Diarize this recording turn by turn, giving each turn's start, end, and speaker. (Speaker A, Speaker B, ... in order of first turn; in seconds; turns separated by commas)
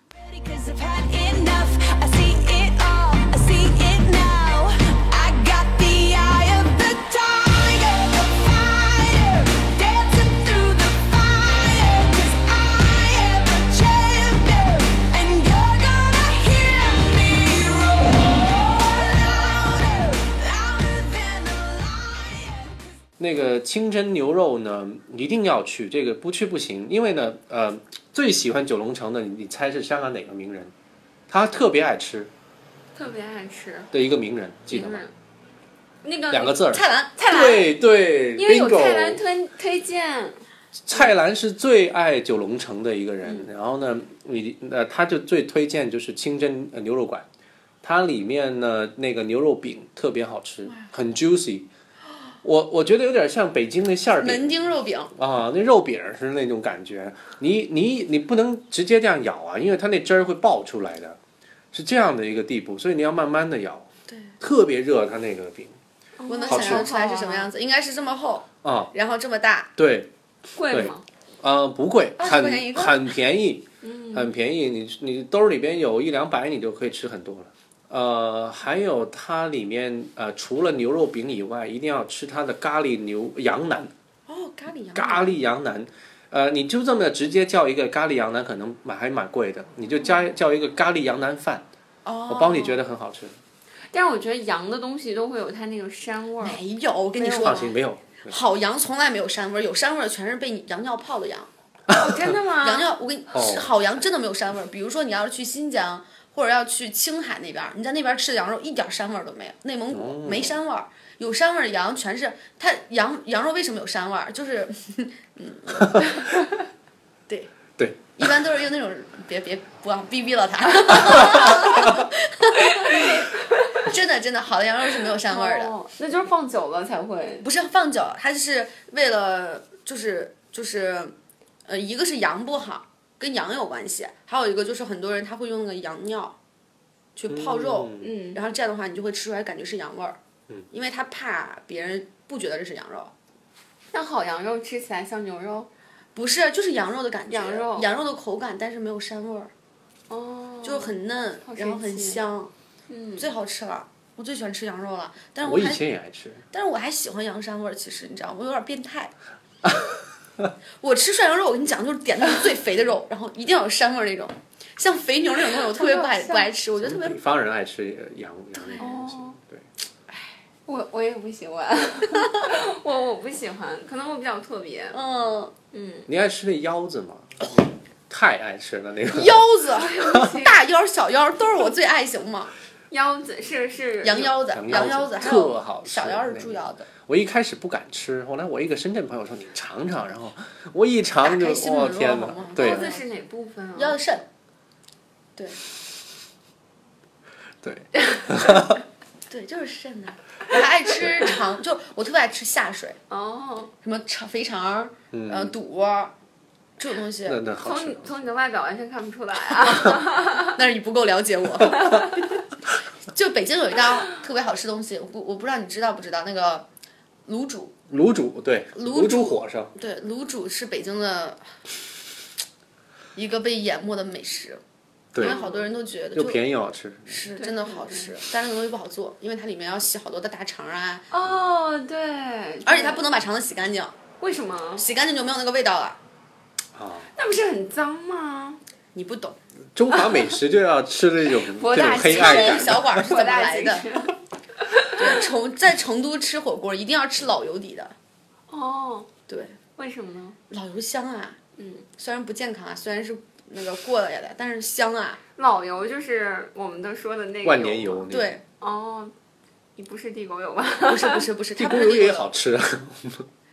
Speaker A: 0.3-22.7, Speaker B: 23.2-30.7, Speaker B: 31.3-32.3, Speaker C: 32.9-33.9, Speaker B: 33.9-35.0, Speaker C: 34.7-35.1, Speaker C: 36.0-37.8, Speaker B: 36.3-39.2, Speaker D: 36.7-37.1, Speaker C: 38.4-40.4, Speaker B: 40.9-47.2, Speaker B: 47.8-51.7, Speaker D: 50.6-50.9, Speaker B: 52.4-54.5, Speaker D: 54.2-55.1, Speaker B: 55.1-61.2, Speaker B: 61.7-63.9, Speaker D: 64.1-64.3, Speaker B: 64.4-65.7, Speaker C: 66.2-67.5, Speaker D: 66.3-69.7, Speaker B: 66.5-66.9, Speaker B: 68.6-68.9, Speaker B: 69.8-70.1, Speaker C: 70.5-71.0, Speaker B: 70.7-83.9, Speaker D: 72.2-73.0, Speaker C: 73.8-74.3, Speaker D: 84.3-85.4, Speaker B: 84.9-91.6, Speaker D: 92.0-92.8, Speaker B: 92.3-93.3, Speaker C: 93.9-96.6, Speaker D: 96.4-101.5, Speaker C: 97.2-97.7, Speaker B: 97.4-98.4, Speaker B: 101.9-102.4, Speaker C: 101.9-102.9, Speaker D: 102.6-116.2, Speaker B: 103.3-103.7, Speaker B: 109.9-110.6, Speaker B: 115.8-116.1, Speaker B: 117.8-118.2, Speaker D: 118.2-123.2, Speaker B: 121.2-121.8, Speaker C: 122.7-123.6, Speaker D: 123.8-125.7, Speaker C: 125.1-127.5, Speaker D: 127.4-131.1, Speaker D: 131.7-136.3, Speaker D: 137.2-140.2, Speaker B: 137.3-138.1, Speaker C: 138.0-138.4, Speaker D: 140.7-143.1, Speaker C: 143.9-145.7, Speaker D: 146.1-149.5, Speaker C: 147.3-147.9, Speaker C: 150.1-152.2, Speaker D: 150.6-152.5, Speaker C: 152.9-153.3, Speaker D: 153.2-155.8, Speaker B: 155.4-156.4, Speaker D: 156.5-159.1, Speaker D: 160.8-167.2, Speaker C: 165.6-166.5, Speaker B: 166.8-169.7, Speaker D: 168.6-168.9, Speaker C: 168.8-169.4, Speaker C: 170.7-175.0, Speaker D: 174.9-175.5, Speaker C: 175.7-176.1, Speaker B: 176.1-180.3, Speaker D: 179.1-182.5, Speaker C: 179.7-180.6, Speaker C: 182.9-184.4, Speaker D: 184.0-186.9, Speaker B: 184.5-192.9, Speaker D: 191.2-193.0, Speaker C: 192.6-194.0, Speaker D: 193.8-194.2, Speaker B: 197.6-198.8, Speaker C: 198.1-198.6, Speaker D: 199.3-203.0, Speaker C: 203.1-203.7, Speaker D: 203.8-206.1, Speaker B: 205.1-205.5, Speaker D: 206.8-207.4, Speaker B: 207.2-208.1, Speaker C: 207.6-210.5, Speaker D: 209.6-212.1, Speaker C: 211.7-212.1, Speaker D: 213.1-216.7, Speaker D: 217.2-217.7, Speaker B: 217.9-219.7, Speaker D: 218.7-221.4, Speaker D: 223.1-224.6, Speaker B: 225.1-225.4, Speaker C: 225.2-225.7, Speaker D: 225.2-226.4, Speaker B: 226.1-227.2, Speaker D: 227.1-231.1, Speaker C: 227.3-228.1, Speaker C: 231.1-233.1, Speaker D: 232.6-233.9, Speaker C: 234.2-234.8, Speaker D: 234.8-236.0, Speaker B: 236.7-237.1, Speaker C: 237.1-238.6, Speaker D: 238.9-239.4, Speaker B: 239.7-243.0, Speaker C: 239.9-240.3, Speaker C: 241.4-244.2, Speaker D: 241.9-243.8, Speaker C: 244.7-245.1, Speaker D: 244.9-247.9, Speaker C: 248.5-249.1, Speaker D: 249.3-249.6, Speaker C: 249.8-250.4, Speaker D: 250.5-251.4, Speaker C: 251.6-251.8, Speaker D: 252.0-255.2, Speaker C: 255.4-258.1, Speaker B: 257.4-258.4, Speaker D: 258.1-258.4, Speaker C: 258.6-259.1, Speaker C: 259.8-261.2, Speaker D: 260.9-262.3, Speaker B: 261.6-263.2